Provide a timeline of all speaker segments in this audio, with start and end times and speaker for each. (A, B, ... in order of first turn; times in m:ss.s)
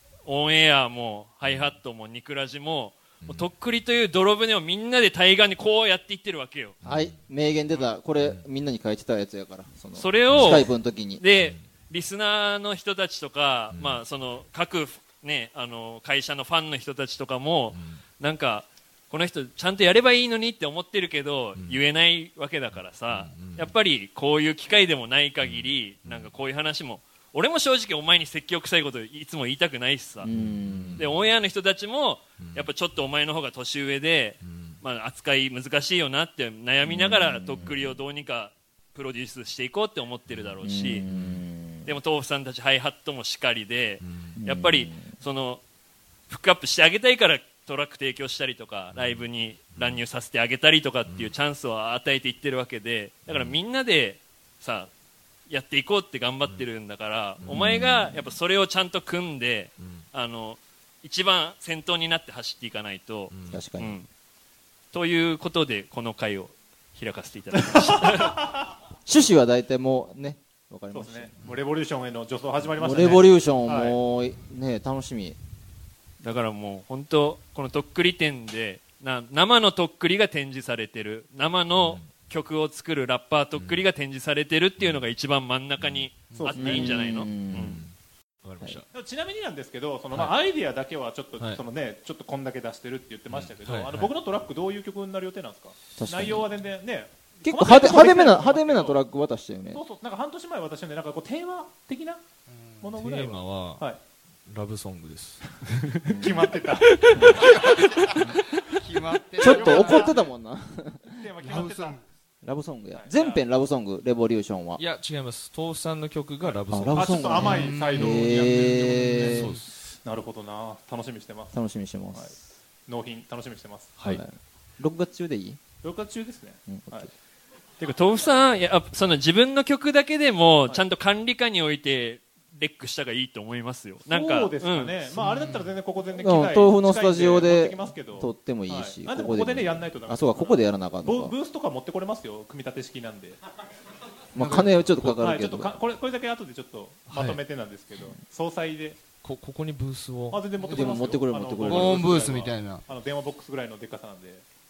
0:00.2-0:06.8 A
0:01.5-0:01.7 B
0:03.2-0:03.5 B
0:06.8-0:07.2 B
0:06.8-0:11.2 C
0:09.9-0:30.3 A
0:10.3-0:10.6 B
0:11.3-0:11.6 B
0:13.7-0:14.0 B
0:17.7-0:18.0 B
0:21.6-0:21.8 B
0:23.0-0:23.7 B
0:25.4-0:26.4 B
0:30.2-0:31.1 C
0:30.3-0:31.3 B
0:31.0-0:41.0 A
0:32.4-0:32.7 B
0:34.4-0:34.8 B
0:36.8-0:38.0 C
0:40.3-0:41.4 B
0:40.6-0:42.0 C
0:41.8-0:45.6 A
0:44.0-0:44.4 B
0:44.4-0:45.1 C
0:46.3-0:54.9 A
0:48.9-0:50.0 B
0:51.1-0:51.3 B
0:53.3-0:53.6 B
0:55.5-1:04.1 A
0:57.4-0:58.1 B
0:57.5-0:58.0 C
0:59.8-1:00.0 B
1:03.3-1:03.6 B
1:03.5-1:04.0 C
1:04.9-1:08.4 A
1:07.7-1:08.5 D
1:09.0-1:11.3 C
1:10.9-1:14.0 D
1:12.8-1:15.4 C
1:16.2-1:27.8 A
1:21.7-1:22.1 B
1:23.5-1:23.8 B
1:24.8-1:25.1 B
1:25.8-1:26.1 B
1:26.3-1:26.9 D
1:26.5-1:27.8 C
1:27.4-1:28.8 B
1:28.9-1:39.0 D
1:31.4-1:31.6 B
1:33.3-1:34.1 B
1:36.0-1:36.4 C
1:37.4-1:39.8 C
1:39.7-1:42.2 D
1:42.5-1:42.9 E
1:42.8-1:44.0 D
1:43.0-1:43.8 B
1:44.5-1:45.4 B
1:46.0-1:46.5 C
1:46.2-1:47.7 D
1:46.9-1:48.6 A
1:47.4-1:48.1 E
1:48.8-1:50.1 E
1:49.4-1:51.3 C
1:49.4-1:50.3 D
1:51.1-1:52.0 D
1:51.4-1:52.0 E
1:52.4-1:54.8 C
1:52.9-1:53.4 D
1:54.8-1:57.3 B
1:56.4-1:59.4 D
1:56.7-1:59.6 C
1:57.3-1:58.3 E
1:59.1-1:59.6 E
1:59.3-1:59.6 B
2:00.0-2:01.5 D
2:01.5-2:02.3 C
2:02.9-2:04.0 D
2:04.0-2:05.6 C
2:05.8-2:07.1 D
2:06.7-2:07.1 C
2:07.8-2:15.0 A
2:14.1-2:23.4 D
2:15.1-2:15.7 E
2:16.1-2:21.3 C
2:24.3-2:24.9 E
2:24.3-2:25.7 C
2:25.0-2:29.0 D
2:27.1-2:27.4 B
2:29.2-2:30.4 B
2:30.3-2:34.4 D
2:30.6-2:32.2 C
2:31.6-2:32.8 E